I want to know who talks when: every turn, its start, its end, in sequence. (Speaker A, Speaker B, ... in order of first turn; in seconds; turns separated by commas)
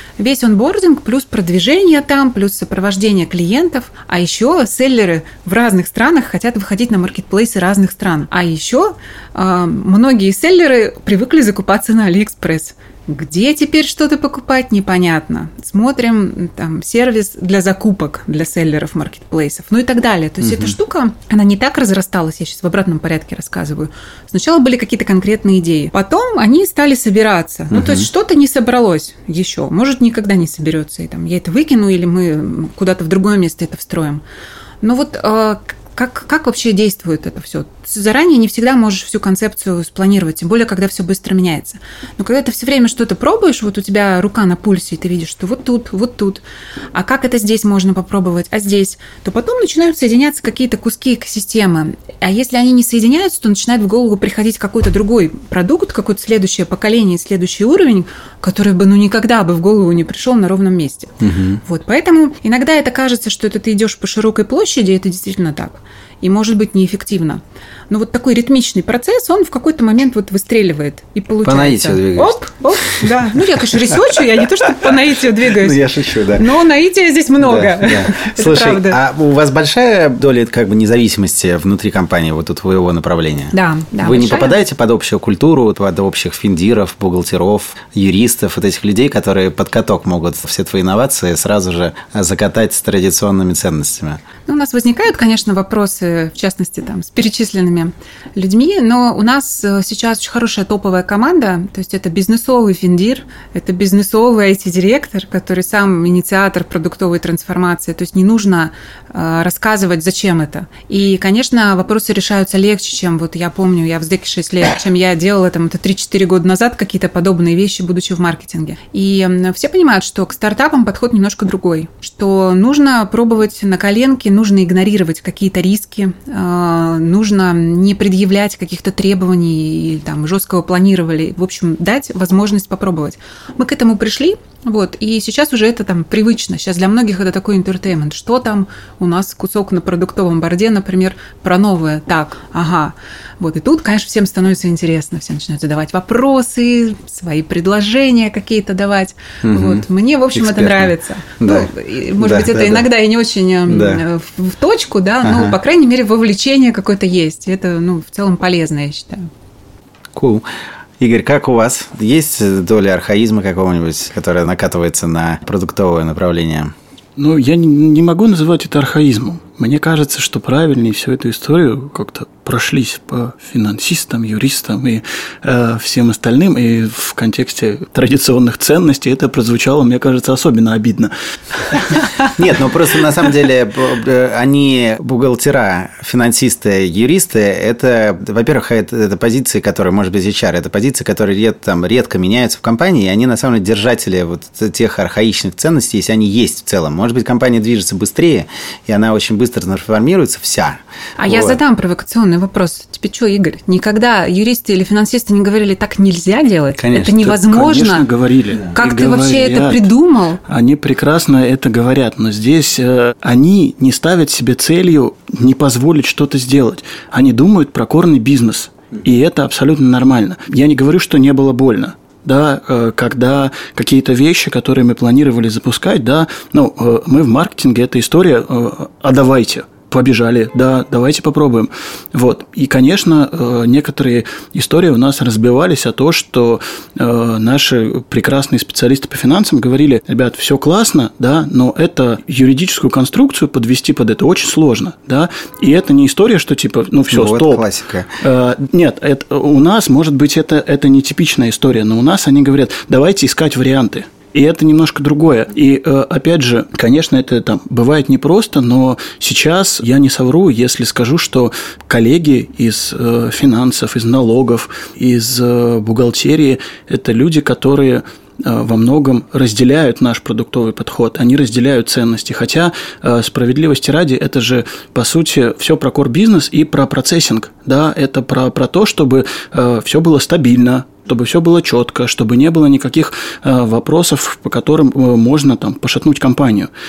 Speaker A: 0.2-34.2, Speaker B: 20.4-20.7, Speaker B: 27.7-28.1, Speaker A: 34.8-46.4, Speaker A: 46.9-79.0, Speaker B: 61.2-61.6, Speaker B: 71.4-72.4, Speaker B: 72.9-76.5, Speaker B: 77.4-94.2, Speaker A: 83.5-84.6, Speaker A: 94.5-159.3, Speaker B: 149.4-152.9, Speaker B: 153.7-154.0, Speaker B: 155.2-155.5, Speaker B: 160.1-160.4, Speaker B: 161.0-166.7, Speaker C: 167.2-182.0, Speaker B: 182.2-201.6, Speaker A: 201.2-208.1, Speaker B: 206.8-207.3, Speaker C: 207.2-209.9, Speaker A: 208.7-210.4, Speaker C: 210.5-247.6, Speaker B: 247.1-248.1, Speaker C: 248.2-286.7